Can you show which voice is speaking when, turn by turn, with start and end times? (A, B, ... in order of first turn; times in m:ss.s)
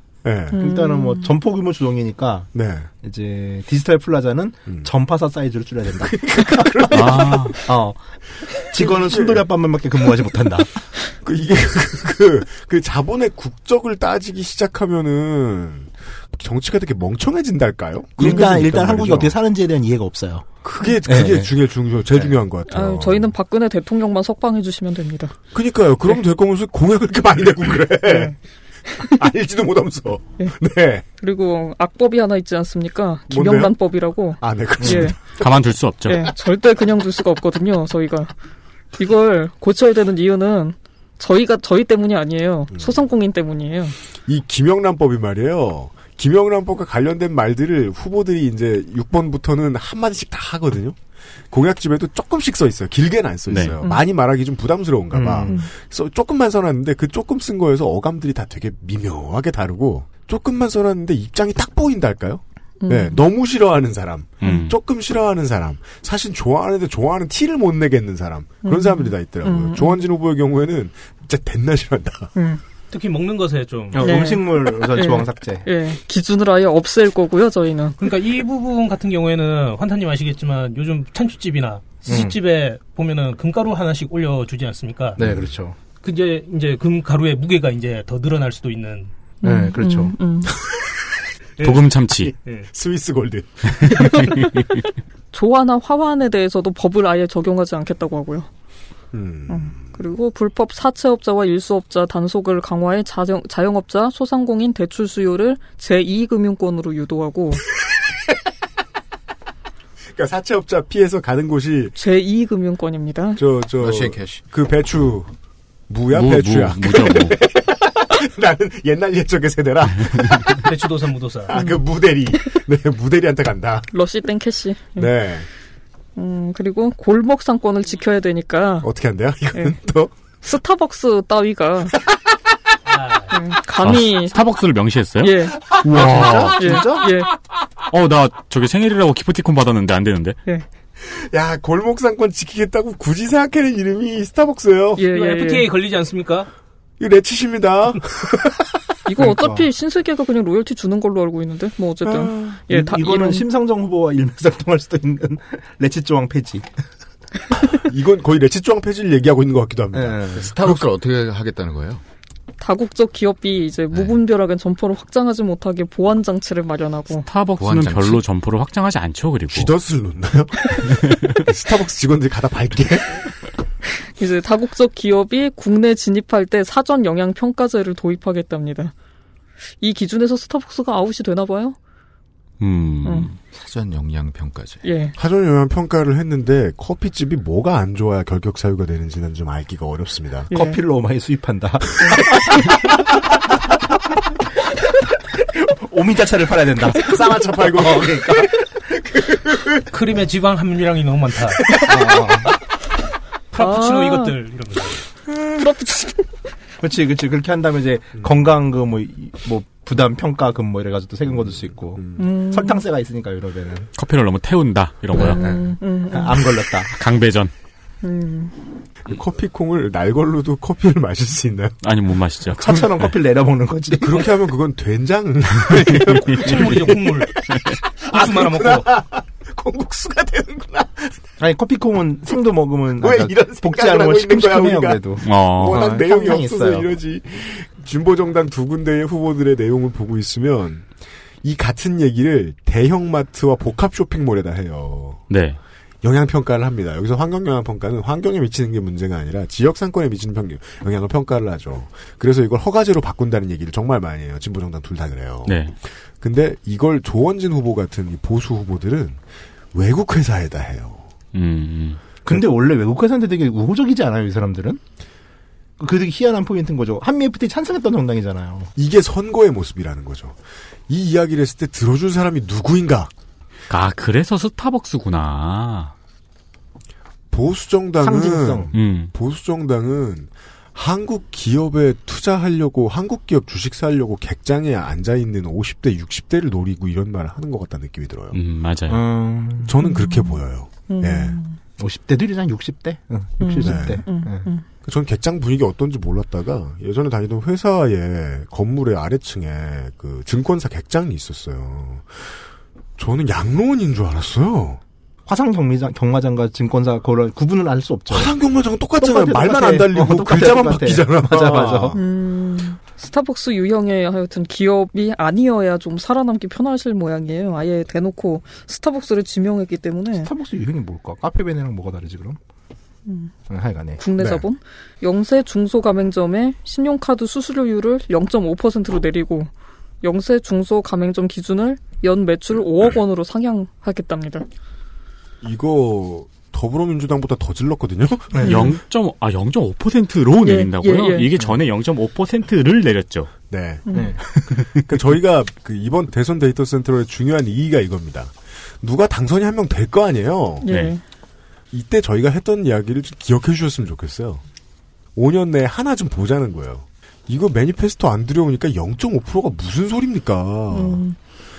0:00.2-0:00.6 A
0:00.5-0:01.3 B
0:00.5-0:02.5 C
0:02.5-0:02.9 A
0:03.0-0:10.7 C
0:06.0-0:07.6 A
0:06.9-0:07.6 D
0:08.8-0:09.4 A
0:11.2-0:19.3 A
0:18.2-0:20.5 C
0:18.2-0:18.5 B
0:20.6-0:23.3 A
0:21.0-0:21.6 C
0:22.7-0:25.3 B
0:25.5-0:28.3 A
0:28.0-0:28.3 B
0:29.0-0:31.0 A
0:31.2-0:35.2 B
0:33.3-0:33.8 A
0:34.4-0:35.4 A
0:34.8-0:35.1 C
0:35.4-0:36.3 D
0:36.1-0:38.3 B
0:39.0-0:43.9 B
0:44.2-0:51.0 A
0:51.5-1:12.3 A
0:53.5-0:53.8 D
0:55.1-0:55.6 C
1:02.8-1:03.2 B
1:04.4-1:04.7 D
1:08.6-1:10.0 B
1:12.3-1:12.6 B
1:12.9-1:14.3 E
1:13.9-1:15.7 C
1:14.0-1:18.0 B
1:18.0-1:25.2 E
1:22.0-1:22.4 C
1:25.2-1:25.5 A
1:25.2-1:25.8 C
1:26.0-1:29.1 E
1:29.4-1:30.5 B
1:29.4-1:30.2 C
1:31.6-1:32.7 E
1:31.6-1:32.3 D
1:32.7-1:34.5 A
1:33.8-1:34.7 D
1:34.0-1:34.6 B
1:35.3-1:38.5 B
1:39.1-1:39.8 A
1:39.5-1:47.6 B
1:50.1-1:51.9 A
1:52.0-1:53.4 B
1:53.4-1:55.3 A
1:53.8-1:54.4 F
1:55.9-2:00.7 A
1:56.1-1:57.4 D
2:00.6-2:01.6 E
2:01.5-2:03.9 A
2:01.5-2:01.8 B
2:03.9-2:05.1 B
2:05.0-2:05.4 A
2:06.2-2:08.9 B
2:08.8-2:10.1 A
2:10.4-2:11.9 B
2:12.8-2:13.3 E
2:13.3-2:14.4 B
2:13.8-2:16.9 D
2:15.2-2:15.6 B
2:15.7-2:17.1 A
2:16.1-2:16.8 C
2:16.5-2:17.3 B
2:17.9-2:20.4 D
2:21.0-2:25.0 A
2:25.0-2:25.7 B
2:25.1-2:26.5 E
2:27.0-2:28.6 A
2:29.0-2:33.4 B
2:29.2-2:29.6 C
2:32.0-2:32.6 A
2:32.7-2:36.7 C
2:37.5-2:40.9 A
2:39.9-2:40.5 C
2:40.4-2:42.0 F
2:42.6-2:47.3 B
2:43.9-2:44.2 F
2:47.2-2:49.7 D
2:47.6-2:48.2 F
2:49.5-2:53.2 A
2:54.2-2:58.9 B
2:59.8-3:01.8 B
3:02.6-3:03.3 D
3:03.4-3:04.8 F
3:04.8-3:05.1 B
3:05.2-3:10.5 A
3:10.5-3:12.8 C
3:10.5-3:10.8 B
3:15.3-3:18.9 C
3:16.9-3:18.5 A
3:19.1-3:19.8 A
3:19.9-3:21.8 E
3:21.8-3:22.5 C
3:23.5-3:25.0 E
3:23.6-3:24.3 B
3:25.6-3:26.3 B
3:26.8-3:33.9 C
3:32.0-3:32.2 A
3:32.2-3:32.8 B
3:34.0-3:35.4 D
3:35.2-3:36.4 B
3:35.2-3:36.9 C
3:36.9-3:37.5 D
3:38.0-3:38.5 B
3:39.1-3:41.7 A
3:41.8-3:43.1 D
3:42.5-3:44.3 C
3:44.0-3:51.2 A
3:46.3-3:47.3 E
3:48.1-3:48.9 E
3:51.4-3:57.0 C
3:53.0-4:00.9 A
3:55.2-3:55.9 D
4:01.4-4:05.3 A
4:05.3-4:05.6 D
4:06.0-4:15.6 A
4:15.4-4:15.7 D
4:16.2-4:19.2 A
4:19.7-4:21.1 A
4:21.3-4:22.0 D
4:22.2-4:24.8 C
4:25.8-4:28.7 C
4:28.8-4:30.4 A
4:30.9-4:33.1 A
4:33.7-4:35.9 D
4:37.3-4:48.4 A
4:38.0-4:38.7 C
4:38.7-4:39.1 D
4:48.3-4:49.0 D
4:48.9-4:49.8 C
4:49.6-4:51.4 A
4:49.8-4:51.6 B
4:51.8-4:54.5 C
4:53.4-4:54.6 B
4:53.6-4:54.0 A
4:54.8-5:02.3 A
5:03.0-5:04.8 A
5:05.2-5:08.3 C
5:08.1-5:12.0 A
5:09.0-5:12.0 C
5:11.9-5:20.3 B
5:20.1-5:22.4 C
5:23.1-5:23.3 B
5:23.5-5:24.0 C
5:24.0-5:29.5 B
5:24.2-5:24.4 A
5:30.0-5:34.5 B
5:35.4-5:38.5 A
5:38.3-5:38.7 C
5:38.4-5:38.7 B
5:38.4-5:43.3 D
5:40.4-5:41.3 B
5:43.5-5:50.6 A
5:43.9-5:44.1 B
5:43.9-5:44.8 C
5:50.6-5:51.0 B
5:50.7-5:50.9 D
5:51.7-5:54.4 A
5:55.2-6:01.0 A
6:00.7-6:01.2 B